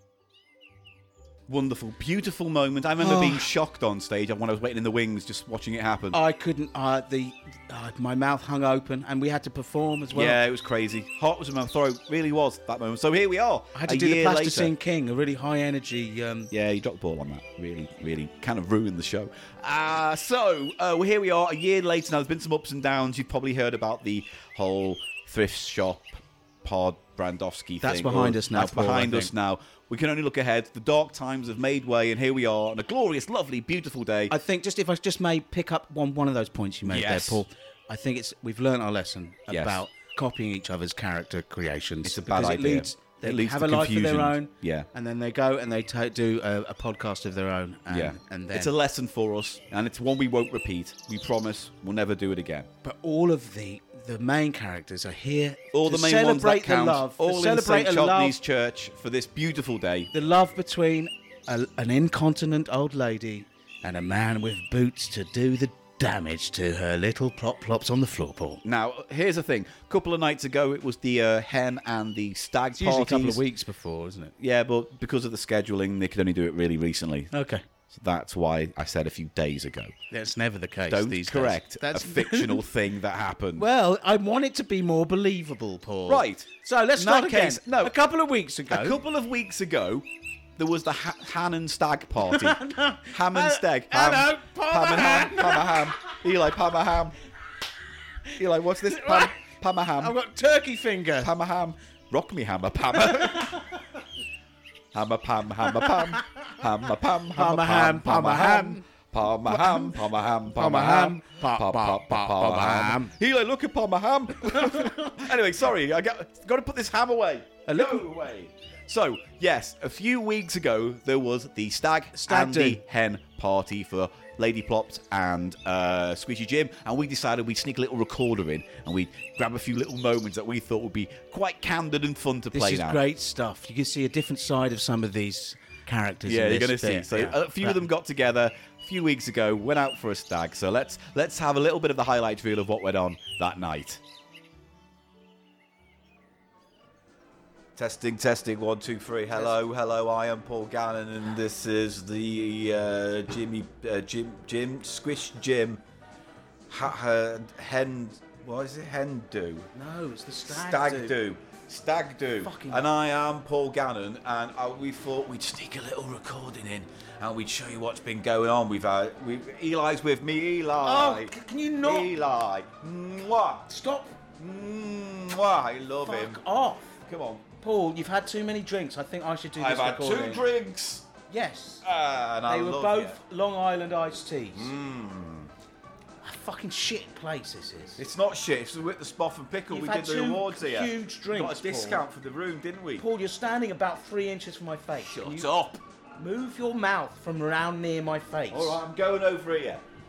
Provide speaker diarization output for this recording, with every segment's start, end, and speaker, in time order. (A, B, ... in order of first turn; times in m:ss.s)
0:01.5-0:06.2 A
0:03.0-0:03.4 B
0:06.1-0:10.4 B
0:10.1-0:14.7 A
0:13.7-0:16.5 B
0:16.5-0:34.4 A
0:27.8-0:29.3 B
0:34.3-0:48.7 B
0:36.9-0:37.4 A
0:39.5-0:39.8 A
0:42.0-0:44.9 A
0:47.9-0:52.7 A
0:52.8-0:58.4 B
0:55.7-1:00.1 A
1:00.1-1:08.6 B
1:08.6-1:13.4 A
1:12.8-1:14.3 B
1:14.4-1:17.3 A
1:17.3-1:17.6 B
1:17.9-1:19.9 A
1:20.1-1:22.6 B
1:20.9-1:23.7 A
1:23.6-1:29.0 B
1:26.1-1:28.0 A
1:28.7-1:37.2 A
1:32.3-1:35.9 B
1:38.4-1:40.2 A
1:38.9-1:39.3 B
1:40.0-1:41.3 B
1:41.2-1:43.7 A
1:44.9-2:13.0 A
1:45.9-1:46.2 B
1:47.3-1:48.8 B
1:49.4-1:53.1 B
1:54.7-1:55.1 B
1:57.7-1:58.1 B
2:02.1-2:02.8 B
2:12.5-2:17.8 B
2:16.2-2:24.0 A
2:27.8-2:35.8 A
2:36.7-2:39.7 A
2:39.7-2:41.2 B
2:40.5-2:53.7 A
2:42.4-2:42.9 B
2:50.8-2:52.1 B
2:53.7-2:54.1 B
2:54.4-2:56.4 A
2:56.0-2:56.9 B
2:57.0-2:57.4 A
2:57.6-3:00.4 B
2:59.5-3:01.1 A
3:01.3-3:01.8 B
3:01.8-3:03.2 A
3:02.5-3:04.7 B
3:04.5-3:05.5 A
3:06.2-3:08.0 B
3:08.0-3:13.1 A
3:09.7-3:12.0 B
3:13.0-3:15.5 B
3:15.0-3:15.8 A
3:16.2-3:18.8 B
3:18.5-3:19.8 A